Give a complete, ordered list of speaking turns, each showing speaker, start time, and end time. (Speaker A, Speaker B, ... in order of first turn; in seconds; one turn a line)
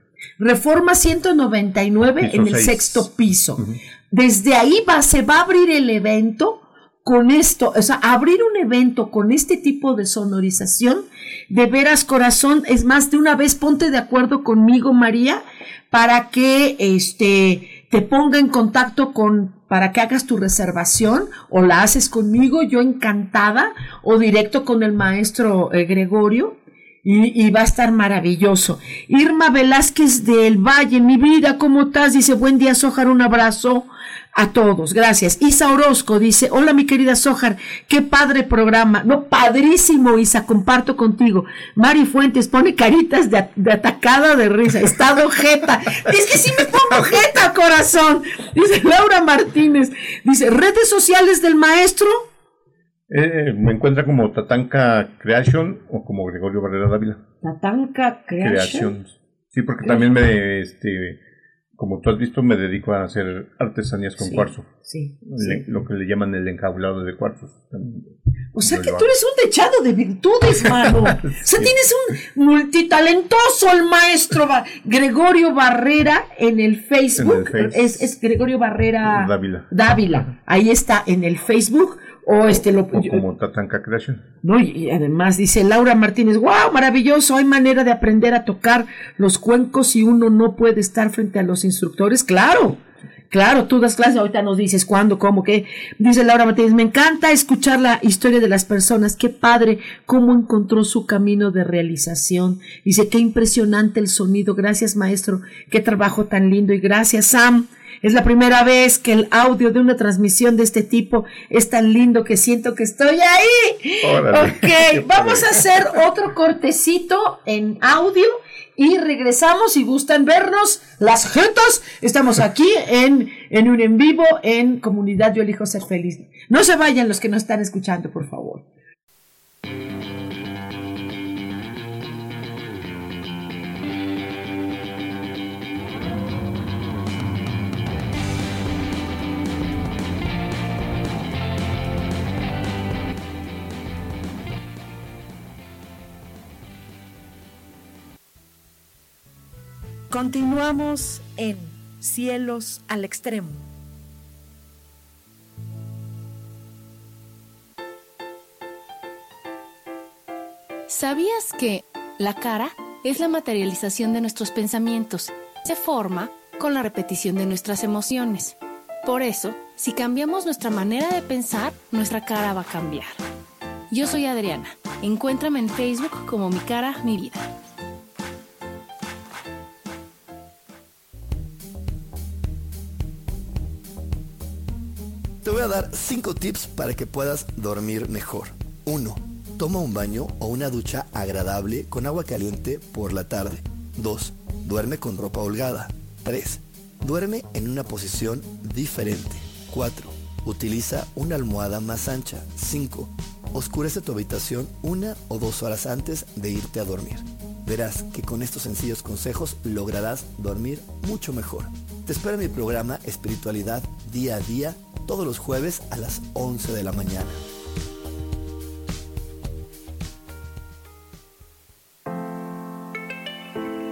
Speaker A: 0.4-52.3
Speaker B: 2.2-3.8
Speaker B: 53.1-57.2
Speaker A: 57.4-58.9
Speaker B: 58.4-61.2
Speaker A: 59.8-60.2
Speaker B: 61.8-64.7
Speaker A: 64.2-65.6
Speaker B: 65.2-68.1
Speaker A: 68.5-83.2
Speaker B: 68.6-69.1
Speaker B: 70.6-71.7
Speaker B: 77.2-78.1
Speaker B: 79.0-79.7
Speaker B: 82.9-84.2
Speaker A: 84.4-92.8
Speaker A: 93.3-128.6
Speaker B: 114.0-116.0
Speaker C: 150.1-153.7
Speaker D: 160.9-173.2
Speaker D: 173.9-177.5
Speaker E: 185.4-217.4